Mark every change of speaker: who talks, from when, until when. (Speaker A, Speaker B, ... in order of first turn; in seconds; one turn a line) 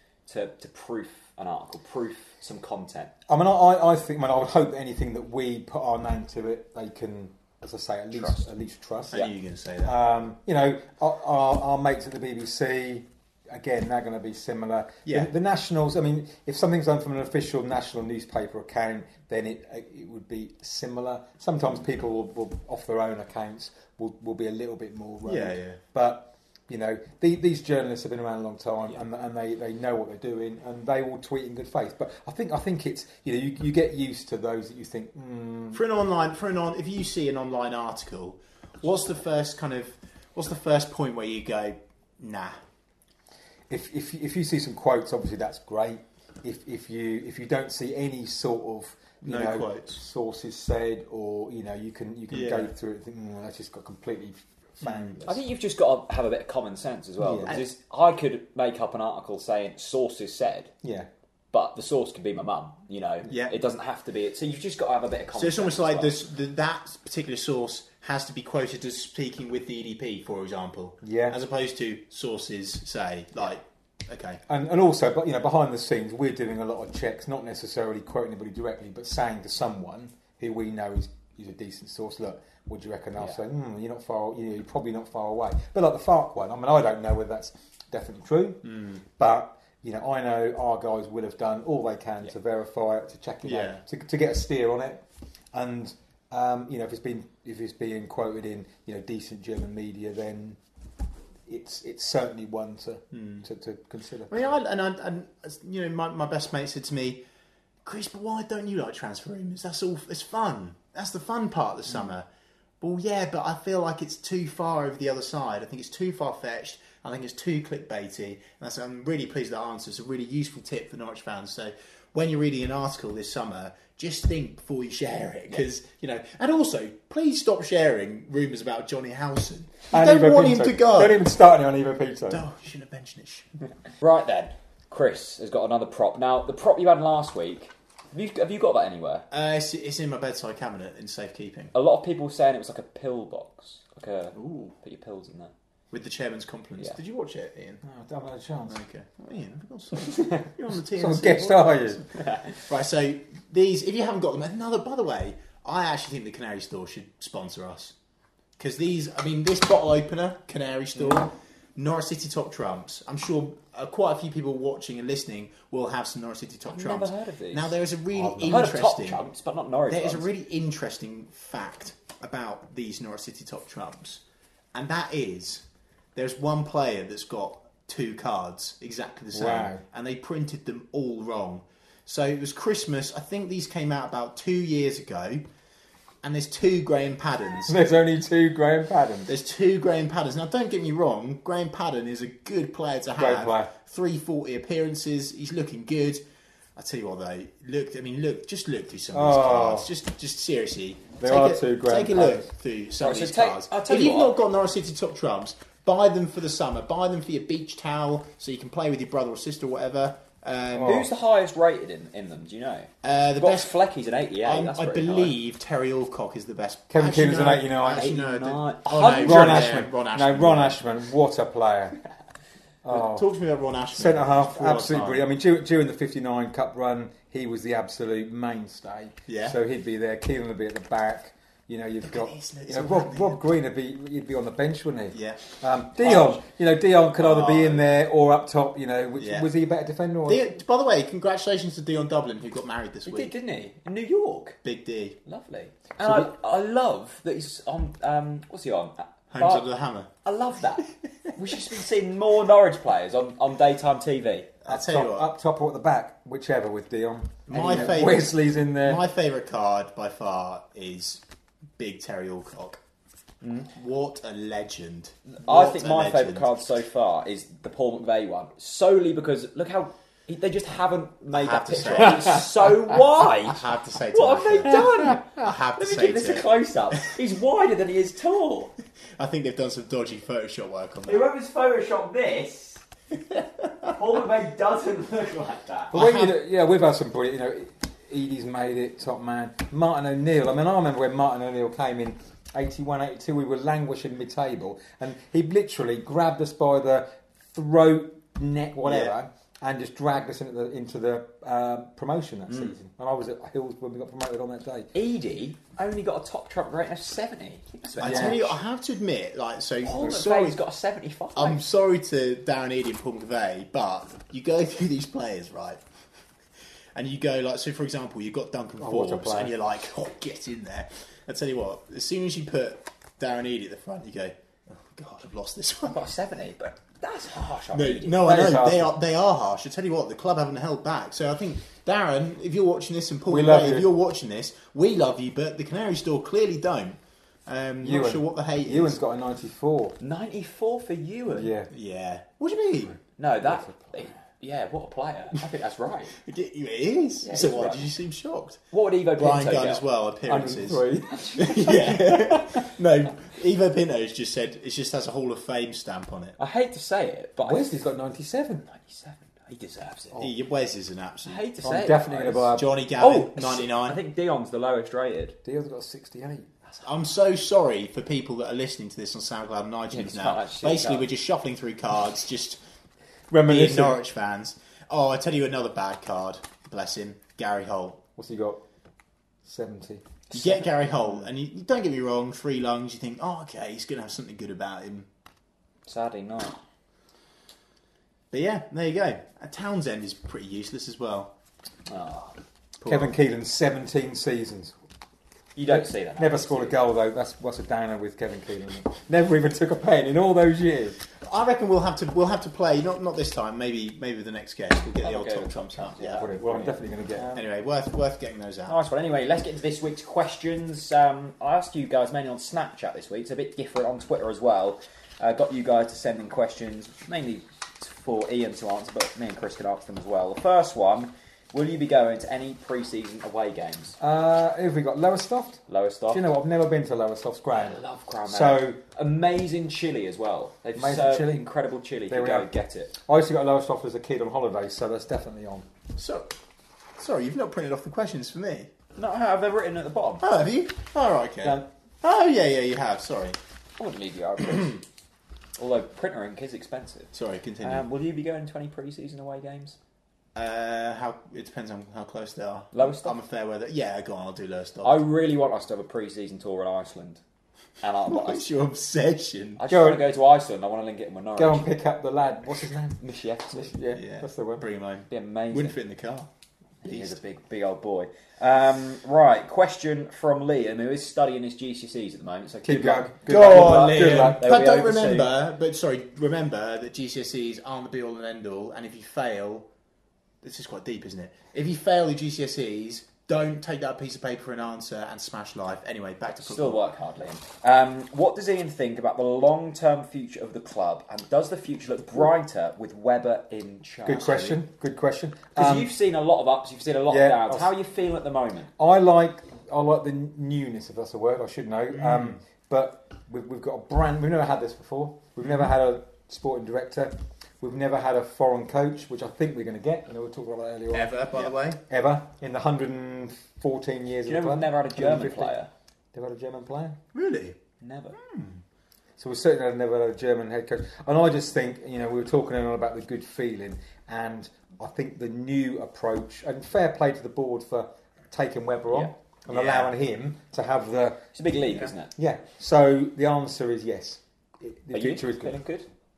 Speaker A: 0.3-3.1
Speaker B: 3.3-9.2
Speaker C: 9.1-10.0
Speaker B: 9.8-35.8
Speaker C: 15.1-15.3
Speaker C: 25.2-25.8
Speaker C: 35.7-42.6
Speaker B: 43.7-55.4
Speaker C: 49.2-50.0
Speaker C: 52.3-52.7
Speaker C: 54.8-55.2
Speaker A: 55.2-60.7
Speaker B: 57.2-57.6
Speaker B: 60.8-61.1
Speaker A: 61.5-66.1
Speaker C: 63.3-63.5
Speaker C: 65.3-74.4
Speaker B: 71.0-71.4
Speaker B: 74.5-100.6
Speaker C: 93.4-93.8
Speaker B: 101.5-104.3
Speaker C: 103.1-103.4
Speaker C: 104.3-107.2
Speaker C: 107.8-112.3
Speaker C: 112.8-131.3
Speaker B: 129.9-132.4
Speaker C: 132.3-133.5
Speaker A: 134.0-139.2
Speaker C: 139.3-141.7
Speaker A: 141.7-145.5
Speaker C: 144.3-144.7
Speaker C: 145.9-147.8
Speaker B: 147.8-148.8
Speaker C: 148.7-157.9
Speaker B: 150.1-152.0
Speaker A: 152.2-152.6
Speaker C: 158.6-169.2
Speaker A: 166.7-167.7
Speaker B: 168.1-168.7
Speaker A: 168.4-170.3
Speaker C: 169.9-174.2
Speaker C: 174.7-175.6
Speaker C: 176.2-185.4
Speaker B: 179.3-179.8
Speaker C: 186.2-187.8
Speaker B: 187.7-189.3
Speaker C: 189.3-196.2
Speaker B: 193.2-193.7
Speaker C: 196.8-211.1
Speaker B: 199.1-199.9
Speaker B: 201.2-202.5
Speaker A: 203.0-204.4
Speaker B: 210.7-211.1
Speaker A: 210.8-215.3
Speaker C: 213.0-213.7
Speaker C: 214.4-220.8
Speaker B: 216.9-218.2
Speaker A: 217.9-219.7
Speaker B: 219.2-222.0
Speaker B: 222.8-223.2
Speaker C: 222.9-225.2
Speaker B: 223.9-240.6
Speaker C: 229.3-229.6
Speaker C: 232.0-233.4
Speaker C: 235.1-236.4
Speaker C: 237.2-237.9
Speaker C: 239.2-239.5
Speaker C: 240.2-243.3
Speaker A: 243.1-244.6
Speaker C: 244.6-245.2
Speaker A: 245.2-249.7
Speaker C: 249.3-250.1
Speaker A: 250.2-254.5
Speaker C: 254.6-255.3
Speaker B: 254.7-259.0
Speaker C: 257.5-261.2
Speaker C: 261.8-262.8
Speaker A: 263.4-263.7
Speaker C: 263.7-266.6
Speaker A: 265.3-273.6
Speaker C: 271.3-272.5
Speaker C: 273.5-277.2
Speaker A: 274.1-278.7
Speaker C: 279.1-281.3
Speaker A: 281.1-282.8
Speaker A: 283.8-285.9
Speaker B: 285.9-304.9
Speaker C: 285.9-286.3
Speaker C: 298.8-299.1
Speaker A: 304.9-308.6
Speaker C: 308.0-310.6
Speaker B: 308.0-308.4
Speaker A: 309.8-311.6
Speaker C: 311.4-315.8
Speaker C: 316.9-326.0
Speaker B: 318.8-319.5
Speaker A: 325.8-328.6
Speaker C: 327.7-339.0
Speaker B: 328.2-328.9
Speaker B: 333.3-333.9
Speaker B: 337.8-339.9
Speaker A: 340.0-341.5
Speaker B: 341.3-341.7
Speaker C: 341.7-343.0
Speaker A: 343.2-346.1
Speaker C: 346.1-348.6
Speaker A: 347.2-347.9
Speaker A: 348.7-349.8
Speaker C: 349.2-356.4
Speaker B: 350.3-352.4
Speaker A: 351.1-351.8
Speaker A: 356.4-357.7
Speaker B: 357.4-358.7
Speaker A: 358.7-360.2
Speaker C: 360.2-361.4
Speaker A: 361.2-365.4
Speaker B: 361.6-362.7
Speaker C: 362.4-364.0
Speaker B: 365.4-366.5
Speaker C: 366.8-372.6
Speaker A: 369.9-371.1
Speaker B: 373.3-374.0
Speaker C: 373.4-378.0
Speaker B: 378.2-378.6
Speaker B: 379.4-380.0
Speaker C: 380.3-385.1
Speaker A: 380.3-380.6
Speaker A: 385.9-386.6
Speaker C: 388.3-391.3
Speaker A: 391.9-392.4
Speaker C: 392.8-393.1
Speaker B: 392.9-394.8
Speaker A: 395.6-396.8
Speaker B: 395.7-401.0
Speaker C: 401.2-406.3
Speaker A: 405.0-407.4
Speaker B: 406.1-407.4
Speaker C: 407.3-408.8
Speaker A: 408.7-424.0
Speaker B: 424.0-428.8
Speaker A: 425.7-426.2
Speaker A: 427.5-432.9
Speaker B: 430.8-431.5
Speaker B: 432.1-435.7
Speaker C: 435.9-436.3
Speaker C: 437.0-438.7
Speaker A: 438.9-440.2
Speaker C: 440.2-443.4
Speaker A: 443.8-444.8
Speaker A: 445.6-447.1
Speaker C: 447.1-447.8
Speaker A: 447.6-449.8
Speaker C: 450.3-455.0
Speaker A: 452.7-453.2
Speaker A: 454.8-457.2
Speaker A: 457.8-458.4
Speaker C: 458.1-459.6
Speaker A: 459.6-461.7
Speaker B: 459.7-460.0
Speaker B: 461.4-464.6
Speaker A: 463.0-463.7
Speaker C: 463.9-466.3
Speaker A: 465.1-465.8
Speaker A: 466.8-475.3
Speaker C: 466.8-467.2
Speaker B: 472.6-474.5
Speaker C: 473.2-479.6
Speaker C: 480.4-486.8
Speaker A: 486.4-494.6
Speaker B: 494.1-495.9
Speaker A: 495.5-498.7
Speaker B: 497.1-497.7
Speaker B: 498.8-511.2
Speaker C: 501.9-502.4
Speaker C: 510.9-511.8
Speaker B: 511.9-515.5
Speaker A: 514.2-515.7
Speaker B: 516.1-517.0
Speaker C: 517.1-517.6
Speaker A: 517.8-518.2
Speaker C: 518.1-518.6
Speaker B: 519.2-531.3
Speaker C: 529.5-529.9
Speaker A: 531.3-532.1
Speaker B: 532.1-535.6
Speaker A: 534.9-535.9